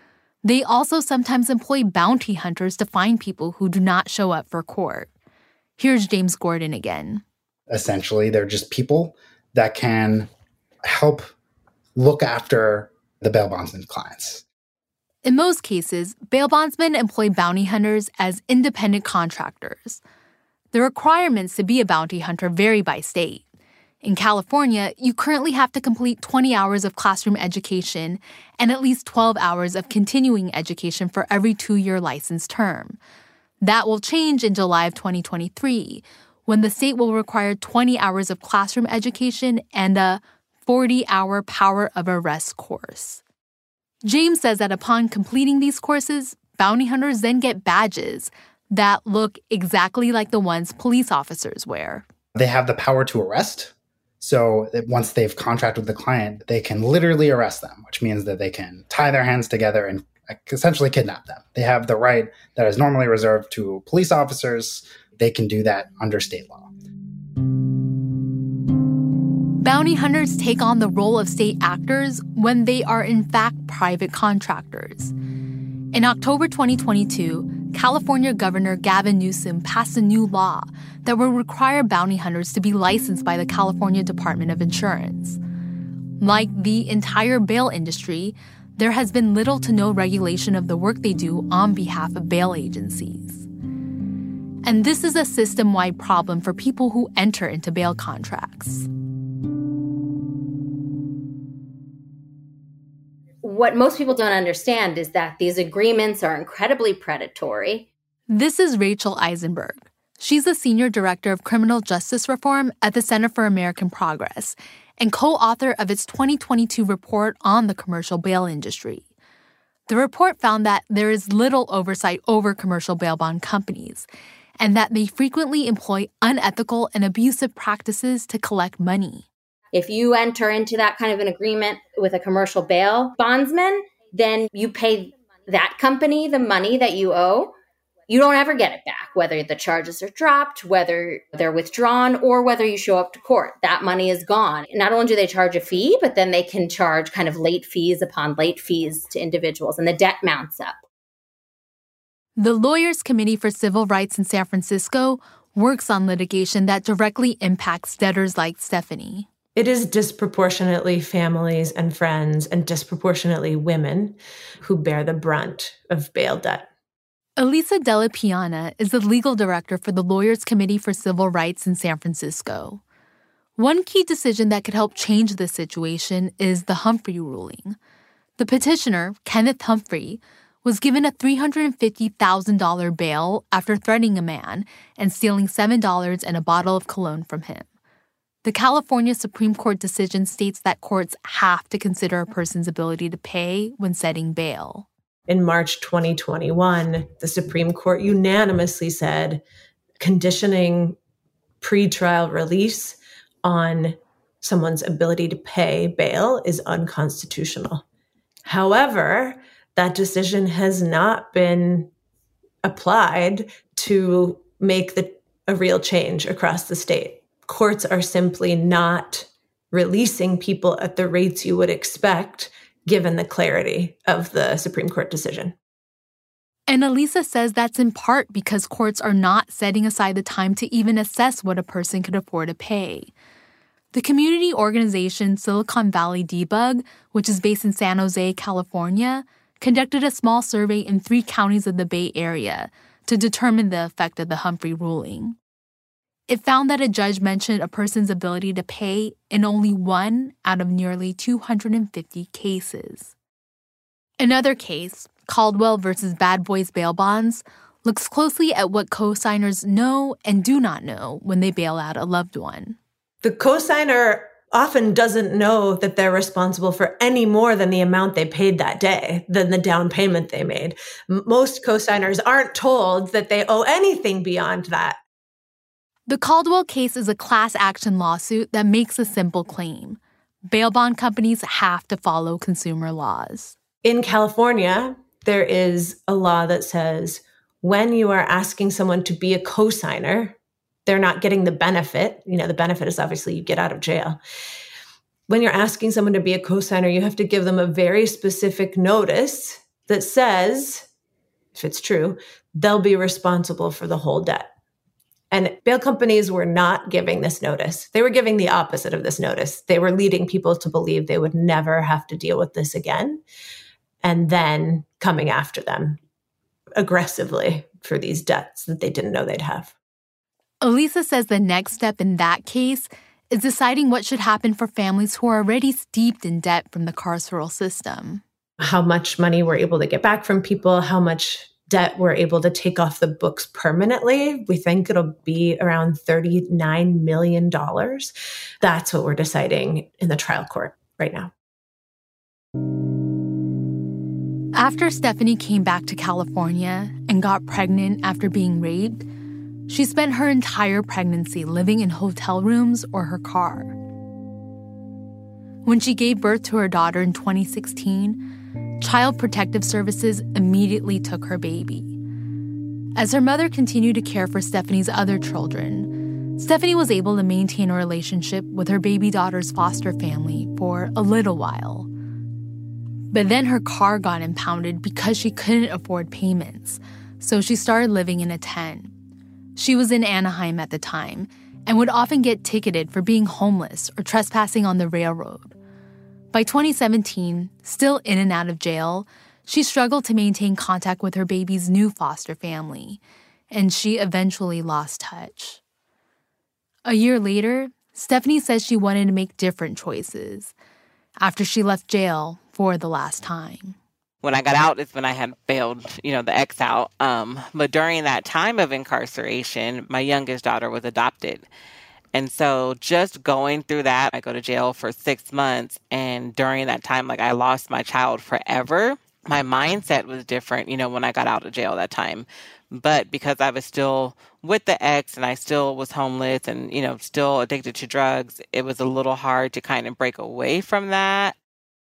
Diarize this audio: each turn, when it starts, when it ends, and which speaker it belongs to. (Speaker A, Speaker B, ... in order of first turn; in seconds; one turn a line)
Speaker A: 0.4-5.1
Speaker A: 5.8-7.2
Speaker B: 7.7-10.3
Speaker B: 10.8-11.3
Speaker B: 11.9-14.4
Speaker A: 15.2-20.0
Speaker A: 20.7-23.4
Speaker A: 24.0-33.0
Speaker A: 33.6-43.2
Speaker A: 44.0-52.0
Speaker B: 52.4-66.7
Speaker A: 69.6-75.1
Speaker A: 75.9-85.4
Speaker A: 86.2-93.5
Speaker A: 94.6-98.9
Speaker C: 103.4-107.9
Speaker A: 108.3-119.1
Speaker A: 119.9-124.1
Speaker A: 124.6-129.3
Speaker C: 129.7-137.6
Speaker C: 138.1-150.8
Speaker A: 152.4-159.3
Speaker D: 159.6-166.7
Speaker A: 167.4-172.8
Speaker A: 173.6-177.8
Speaker A: 178.4-187.7
Speaker A: 188.4-194.9
Speaker D: 195.3-199.4
Speaker D: 200.0-201.0
Speaker D: 201.6-207.8
Speaker D: 208.5-211.9
Speaker D: 212.6-225.6
Speaker A: 226.7-233.1
Speaker A: 233.9-245.4
Speaker A: 246.3-253.1
Speaker A: 254.2-262.8
Speaker D: 263.2-275.0
Speaker A: 276.1-283.6
Speaker D: 283.8-294.2
Speaker D: 295.3-300.9
Speaker D: 301.6-304.5
Speaker D: 305.3-313.2
Speaker D: 314.0-316.0
Speaker D: 316.8-319.7
Speaker A: 320.6-328.2
Speaker D: 328.6-341.3
Speaker A: 344.6-349.0
Speaker A: 349.7-353.7
Speaker A: 355.6-358.2
Speaker A: 358.8-361.9
Speaker A: 363.0-371.9
Speaker A: 373.1-378.9
Speaker A: 379.6-385.5
Speaker A: 386.3-393.0
Speaker A: 393.5-395.6
Speaker A: 396.9-400.5
Speaker A: 401.2-403.8
Speaker E: 404.2-411.5
Speaker E: 412.1-431.4